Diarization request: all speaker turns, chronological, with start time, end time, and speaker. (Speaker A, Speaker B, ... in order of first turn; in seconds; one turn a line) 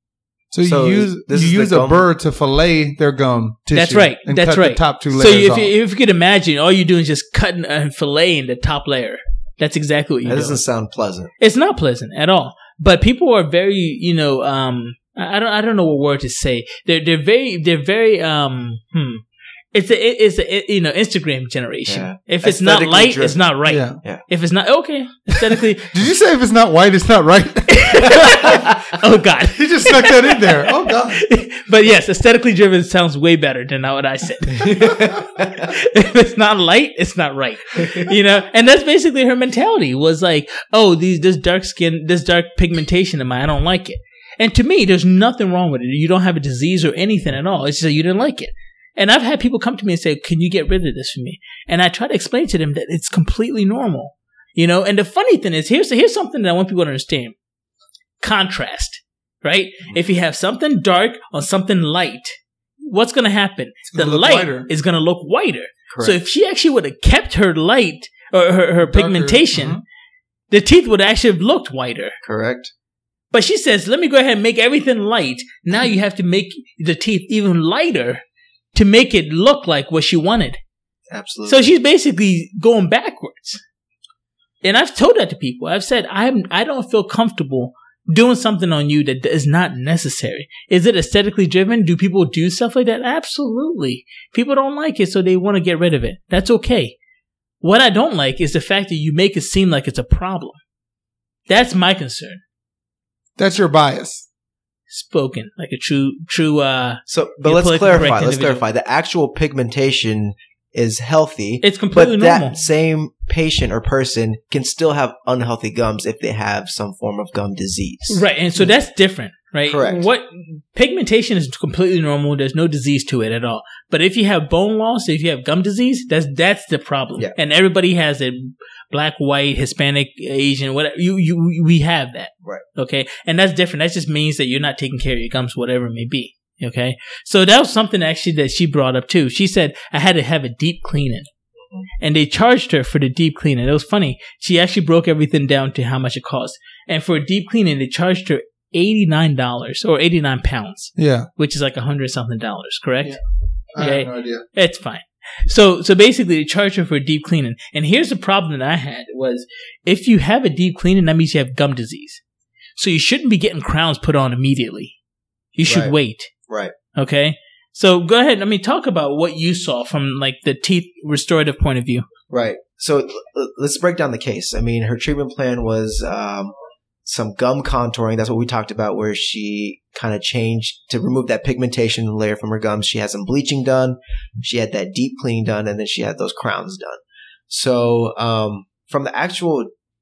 Speaker A: 0.5-5.7
Speaker B: 0.6-2.0
Speaker C: 3.7-10.6
Speaker B: 10.2-11.3
Speaker C: 11.4-19.2
Speaker C: 19.7-25.9
Speaker B: 21.9-23.4
Speaker A: 23.6-24.0
Speaker A: 25.9-28.6
Speaker C: 27.7-57.4
Speaker A: 29.5-31.2
Speaker B: 34.6-35.7
Speaker C: 58.2-69.8
Speaker A: 63.9-64.7
Speaker B: 65.9-66.2
Speaker A: 68.8-69.8
Speaker C: 70.5-72.2
Speaker B: 72.2-72.7
Speaker C: 73.3-78.2
Speaker C: 78.7-80.6
Speaker B: 81.1-81.7
Speaker C: 81.5-83.6
Speaker C: 84.6-97.0
Speaker C: 97.6-100.6
Speaker C: 101.5-102.4
Speaker A: 103.4-104.2
Speaker C: 104.9-108.6
Speaker B: 107.1-118.7
Speaker C: 111.6-112.6
Speaker C: 118.1-141.3
Speaker B: 119.7-120.1
Speaker C: 142.0-153.2
Speaker A: 151.0-151.3
Speaker A: 153.7-154.4
Speaker C: 153.8-162.2
Speaker C: 162.8-164.9
Speaker C: 165.5-166.3
Speaker B: 165.7-165.9
Speaker C: 166.9-172.1
Speaker B: 172.3-176.5
Speaker B: 177.0-189.7